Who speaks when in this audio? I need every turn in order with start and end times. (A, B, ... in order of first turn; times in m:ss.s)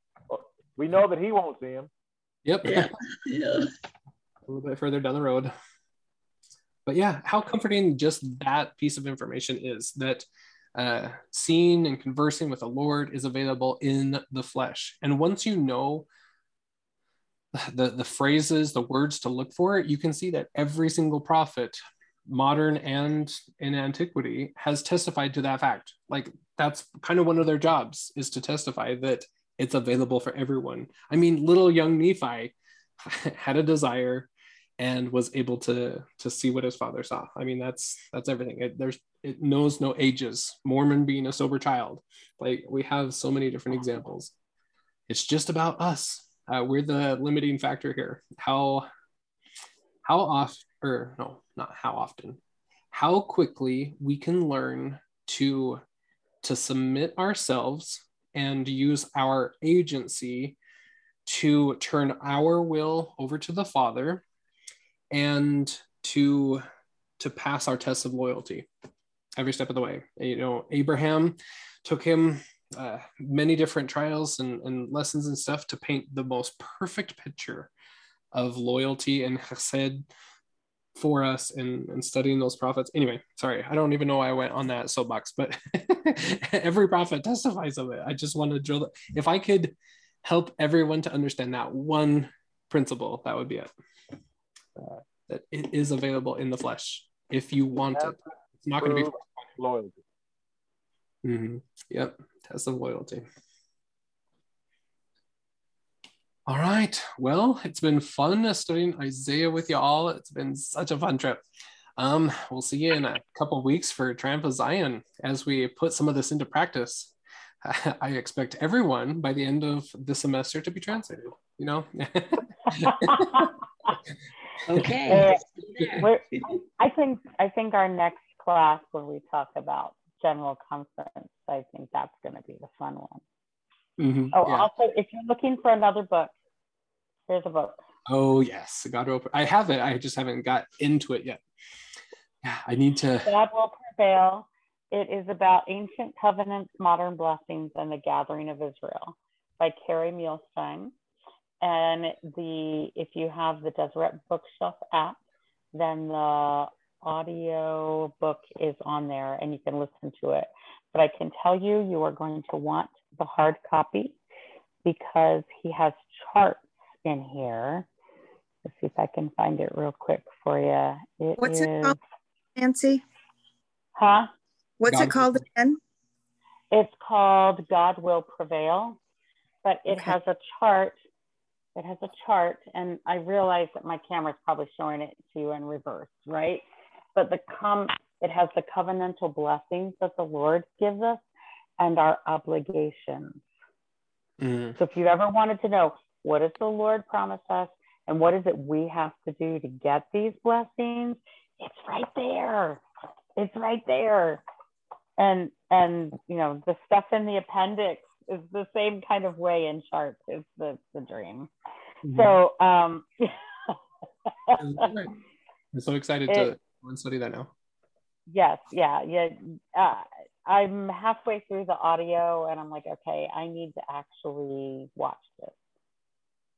0:00.3-0:01.9 A
0:02.4-0:02.9 B
0:02.6-0:03.7 C
0:04.5-0:05.5 B
0:06.9-0:16.1 B
0:17.5-0:44.3 B
0:45.1-0:48.9 B
0:50.0-0:52.4 B
0:52.9-0:55.8 B
0:56.4-1:00.6 B
1:01.3-1:04.2 B
1:05.1-1:06.6 B
1:07.2-1:08.7 B
1:09.4-1:17.7 B
1:18.3-1:20.1 B
1:21.0-1:33.7 B
1:34.8-1:39.5 B
1:37.9-1:40.0 A
1:41.2-1:43.3 B
1:46.5-1:51.4 B
1:52.0-2:03.5 B
2:02.9-2:03.5 D
2:04.7-2:06.4 C
2:05.1-2:05.4 D
2:06.0-2:13.2 D
2:14.0-2:14.7 B
2:14.3-2:16.3 D
2:17.3-2:17.8 D
2:18.1-2:21.4 B
2:22.4-2:23.3 B
2:23.2-2:30.9 D
2:31.6-2:35.2 D
2:35.7-2:44.2 D
2:44.8-2:47.9 D
2:48.6-2:52.0 D
2:51.4-2:52.0 E
2:52.6-2:53.0 E
2:54.0-2:54.3 D
2:54.8-2:55.8 E
2:54.9-2:55.4 B
2:56.7-2:59.0 D
2:59.6-3:01.0 D
3:01.8-3:11.2 D
3:11.8-3:13.4 D
3:14.4-3:14.8 B
3:14.8-3:22.8 D
3:23.4-3:24.4 D
3:25.2-3:31.5 D
3:32.1-3:32.3 B
3:32.1-3:33.8 D
3:34.5-3:34.9 D
3:34.6-3:35.2 B
3:35.7-3:37.5 B
3:36.3-3:36.5 D
3:38.3-3:45.5 D